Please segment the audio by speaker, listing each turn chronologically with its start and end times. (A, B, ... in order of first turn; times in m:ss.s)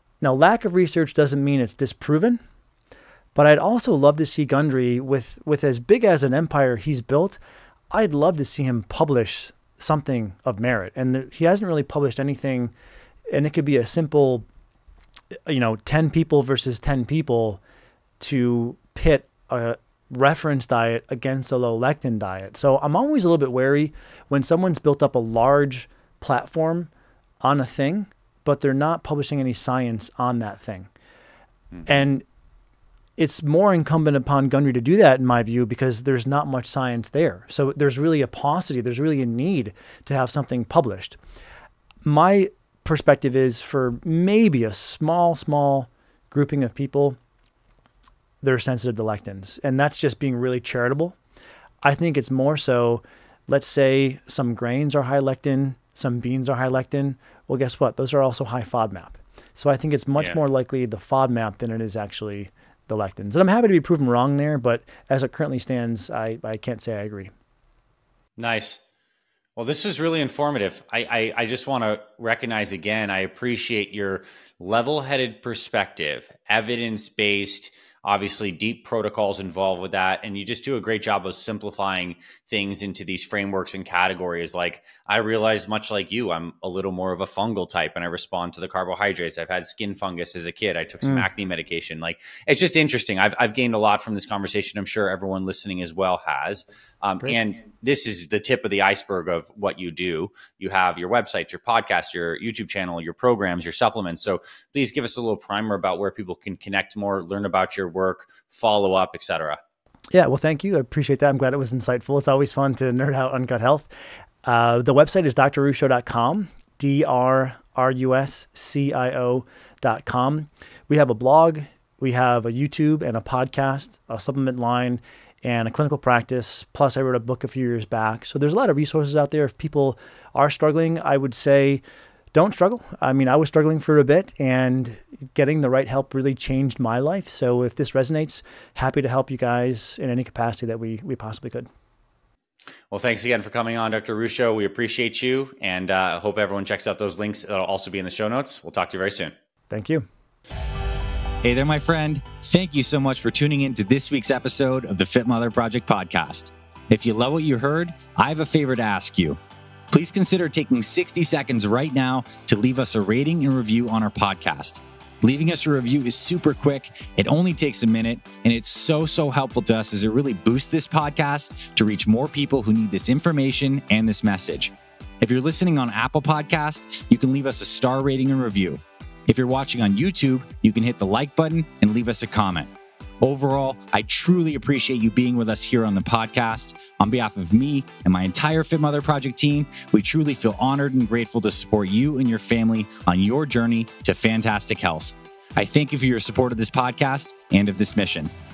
0:00.2-0:02.4 A
0:03.3-0:07.4 A
0:07.9-0:12.7 A
0:13.3-0:14.4 A
0:15.4-0:17.6 A
0:18.2-0:26.9 A
0:27.4-0:30.9 A
0:31.7-0:32.0 B
0:31.8-0:32.2 A
0:33.2-0:41.2 A
0:42.0-0:47.2 A
0:48.4-0:51.2 A
0:51.8-1:07.3 A
1:08.4-1:08.8 B
1:09.6-1:49.6 B
1:50.1-1:53.9 A
1:54.4-2:11.8 A
2:12.3-2:21.7 A
2:22.9-2:29.3 B
2:29.7-2:30.0 A
2:31.4-2:39.4 B
2:39.9-3:18.3 B